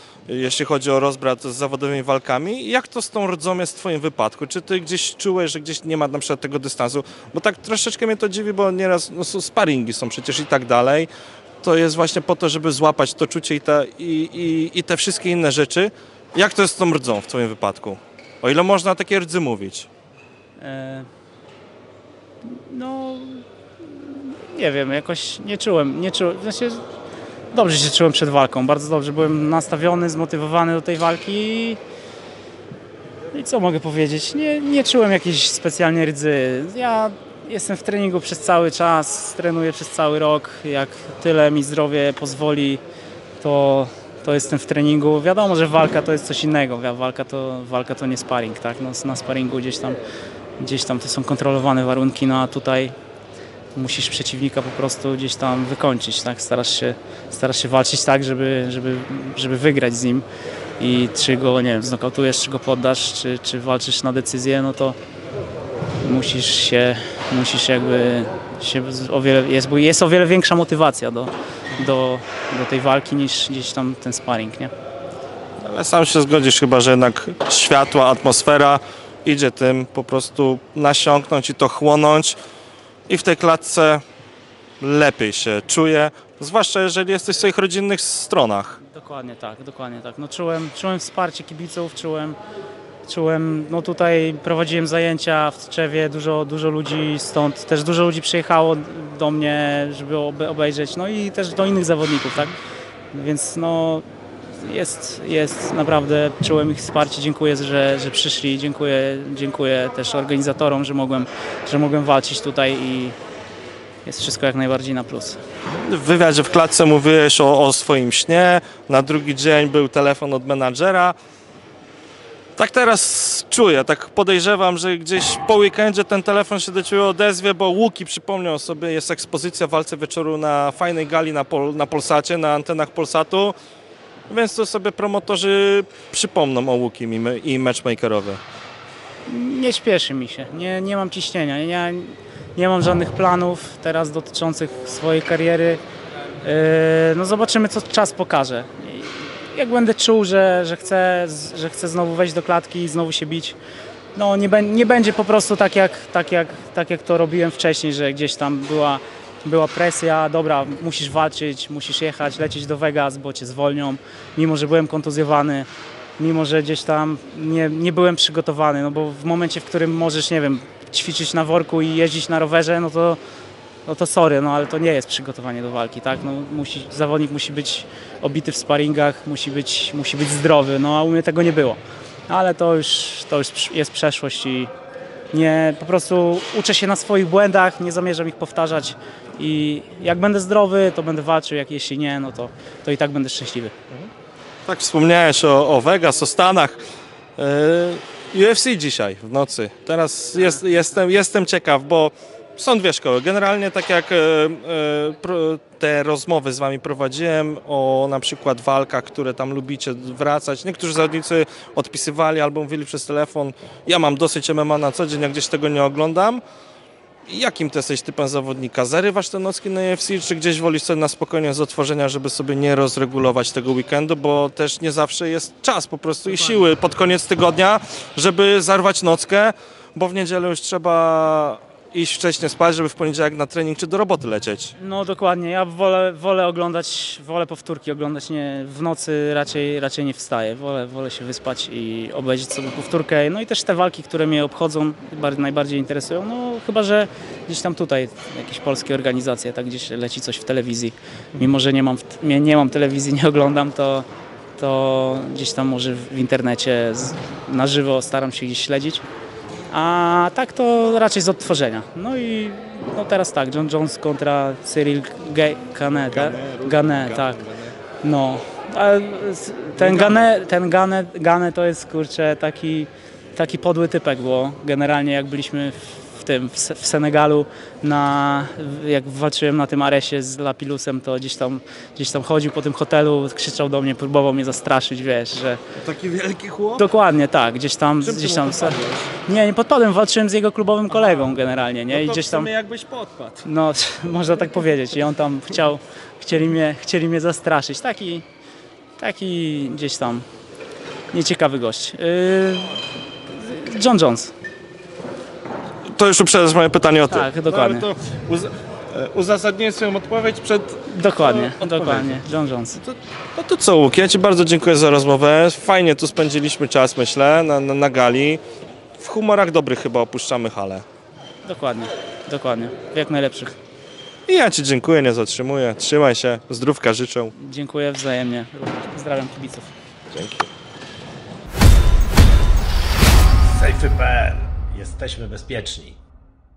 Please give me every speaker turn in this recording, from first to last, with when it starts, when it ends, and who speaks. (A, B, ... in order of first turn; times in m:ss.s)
0:00.3-0:11.1 A
0:11.6-0:19.9 A
0:20.6-0:21.1 B
0:22.5-0:26.8 B
0:27.5-0:31.8 B
0:33.3-0:42.8 B
0:43.4-0:50.0 B
0:50.6-0:52.9 B
0:53.8-1:00.3 B
1:00.8-1:05.0 B
1:06.0-1:14.7 B
1:15.6-1:22.4 A
1:23.1-1:24.0 A
1:24.8-1:28.8 A
1:28.8-1:32.4 B
1:33.1-1:42.6 B
1:43.1-1:53.2 B
1:54.0-1:55.4 B
1:55.7-2:01.2 A
2:02.6-2:13.6 A
2:14.3-2:18.4 A
2:19.3-2:25.8 B
2:26.4-2:33.6 B
2:34.2-2:53.2 B
2:53.8-3:04.7 B
3:05.3-3:13.7 B
3:14.7-3:16.8 A
3:17.4-3:36.4 A
3:37.3-3:54.7 A
3:54.8-4:14.1 B
4:14.6-4:19.0 B
4:19.7-4:27.4 B
4:26.1-4:27.8 A
4:28.0-4:45.6 B
4:29.8-4:30.2 A
4:45.8-4:46.8 A
4:46.8-4:52.5 B
4:48.0-4:49.1 A
4:50.9-4:51.3 A
4:51.9-4:53.5 A
4:53.4-4:58.2 B
4:59.0-5:00.2 B
5:01.1-5:04.3 B
5:05.9-5:12.2 A
5:07.1-5:07.9 B
5:10.9-5:12.8 B
5:12.8-5:18.4 A
5:19.0-5:20.8 A
5:21.4-5:23.6 B
5:24.3-5:27.3 A
5:27.4-5:29.7 B
5:30.1-5:30.5 A
5:33.6-5:36.0 C